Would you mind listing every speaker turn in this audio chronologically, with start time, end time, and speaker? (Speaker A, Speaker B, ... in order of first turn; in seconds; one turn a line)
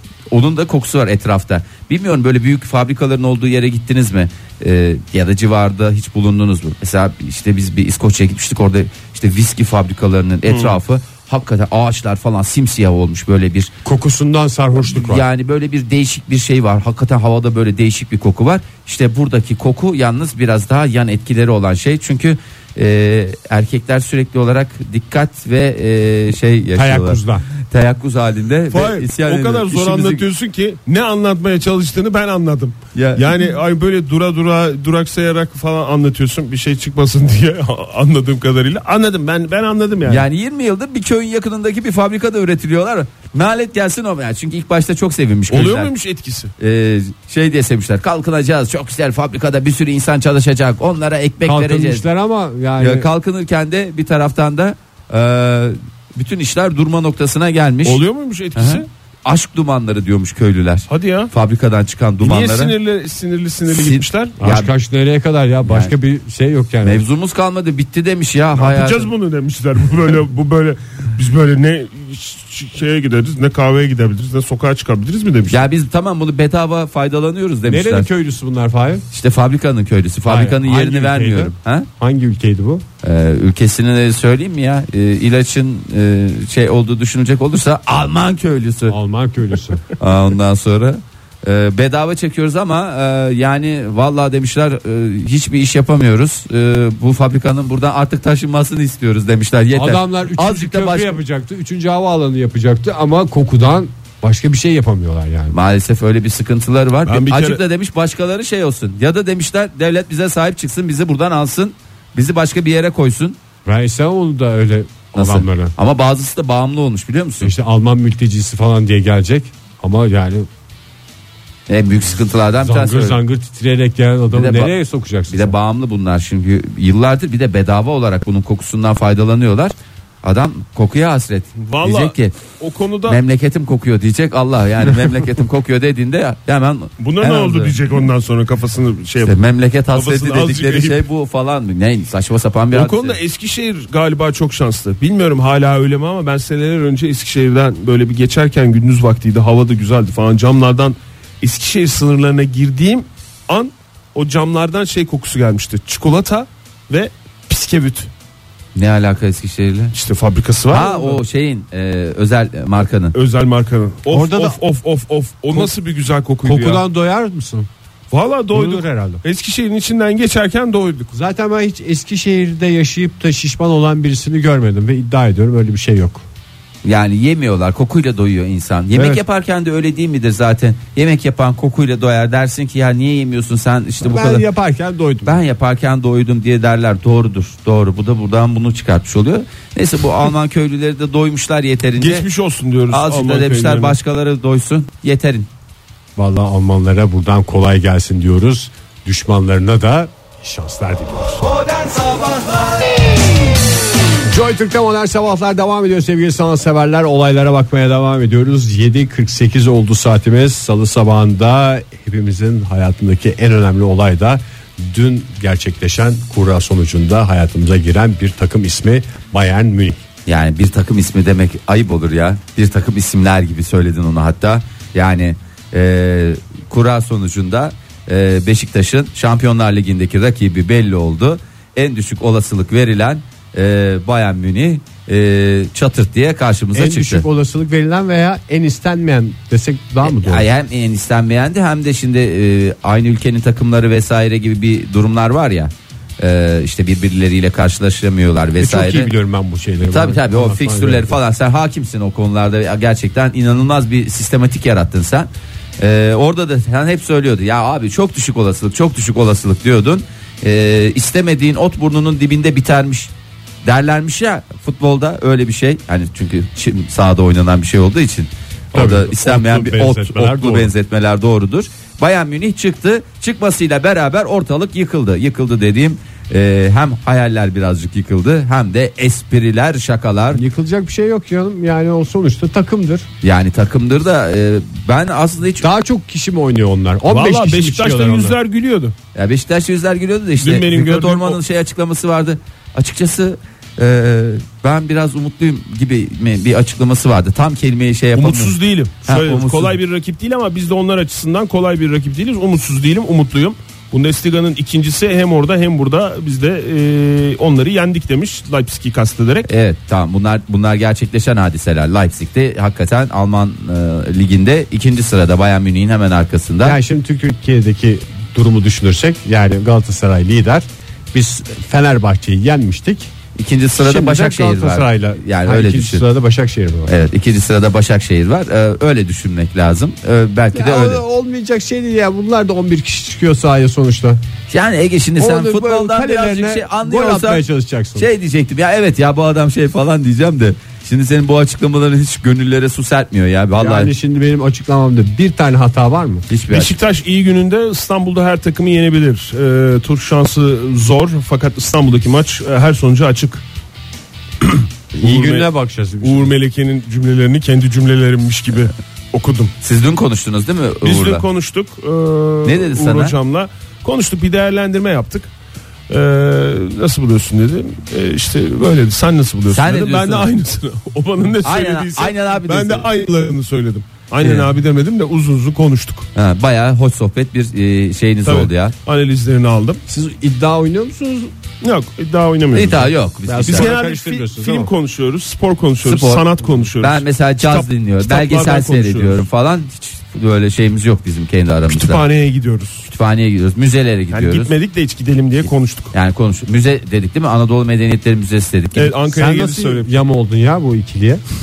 Speaker A: 0.3-13.7
Speaker B: 10.5-10.8
Speaker C: 13.8-15.2
Speaker A: 14.8-30.3
Speaker C: 26.8-27.4
Speaker B: 28.7-40.3
Speaker A: 33.0-33.3
Speaker A: 40.1-45.9
Speaker B: 45.5-46.5
Speaker A: 46.6-52.1
Speaker C: 51.4-53.1
Speaker A: 52.8-58.0
Speaker B: 57.9-58.9
Speaker A: 58.5-62.8
Speaker B: 60.9-61.3
Speaker B: 62.2-64.3
Speaker A: 63.7-64.7
Speaker C: 64.4-67.1
Speaker A: 65.7-65.9
Speaker A: 66.8-69.1
Speaker B: 68.5-75.7
Speaker A: 75.5-78.1
Speaker C: 77.7-79.0
Speaker A: 79.1-81.9
Speaker C: 80.3-82.8
Speaker A: 83.0-89.0
Speaker C: 88.9-89.8
Speaker A: 90.0-101.2
Speaker C: 99.7-105.6
Speaker A: 105.5-113.4
Speaker B: 107.1-107.6
Speaker C: 113.7-115.7
Speaker A: 115.2-117.5
Speaker C: 117.4-120.5
Speaker A: 121.7-123.2
Speaker C: 122.6-125.5
Speaker A: 124.3-124.7
Speaker A: 125.3-132.4
Speaker B: 131.6-133.2
Speaker A: 133.1-137.8
Speaker B: 137.0-139.4
Speaker A: 139.2-143.2
Speaker B: 139.9-141.0
Speaker B: 142.7-158.1
Speaker A: 158.8-159.9
Speaker B: 159.9-161.2
Speaker A: 160.7-163.2
Speaker B: 163.1-166.8
Speaker C: 164.1-164.6
Speaker C: 166.4-167.7
Speaker B: 168.1-171.1
Speaker C: 168.5-169.2
Speaker C: 171.1-176.2
Speaker A: 176.8-184.4
Speaker C: 178.9-179.2
Speaker C: 184.0-185.4
Speaker A: 185.2-192.3
Speaker B: 192.0-194.0
Speaker A: 192.9-195.5
Speaker C: 196.2-201.5
Speaker C: 204.2-220.0
Speaker A: 220.3-237.3
Speaker C: 236.7-240.5
Speaker A: 240.0-249.1
Speaker C: 248.6-251.2
Speaker A: 249.9-263.1
Speaker A: 263.6-280.4
Speaker C: 268.7-270.7
Speaker C: 280.3-283.1
Speaker A: 283.2-285.7
Speaker C: 285.6-288.4
Speaker B: 287.1-288.9
Speaker A: 289.1-299.8
Speaker B: 290.4-291.4
Speaker B: 298.2-309.5
Speaker A: 309.5-316.8
Speaker C: 316.6-323.1
Speaker A: 323.4-326.1
Speaker C: 323.8-326.9
Speaker A: 326.9-331.0
Speaker C: 330.5-334.2
Speaker A: 334.5-337.4
Speaker C: 335.2-338.1
Speaker A: 338.0-343.9
Speaker C: 343.6-346.3
Speaker A: 346.3-346.7
Speaker B: 346.5-353.4
Speaker B: 354.9-355.5
Speaker C: 355.0-356.3
Speaker B: 356.0-359.5
Speaker A: 359.6-361.2
Speaker B: 360.8-365.3
Speaker A: 362.4-363.1
Speaker B: 365.9-376.1
Speaker A: 369.5-370.3
Speaker A: 371.4-372.9
Speaker A: 374.2-374.5
Speaker A: 376.1-378.7
Speaker B: 378.2-379.8
Speaker C: 379.9-381.3
Speaker B: 381.6-382.9
Speaker A: 382.5-383.7
Speaker C: 383.3-384.7
Speaker B: 383.4-389.3
Speaker A: 385.8-386.3
Speaker A: 386.8-392.1
Speaker B: 391.7-392.9
Speaker A: 392.9-394.5
Speaker B: 394.1-395.9
Speaker A: 395.9-398.9
Speaker B: 398.8-399.9
Speaker C: 399.1-401.2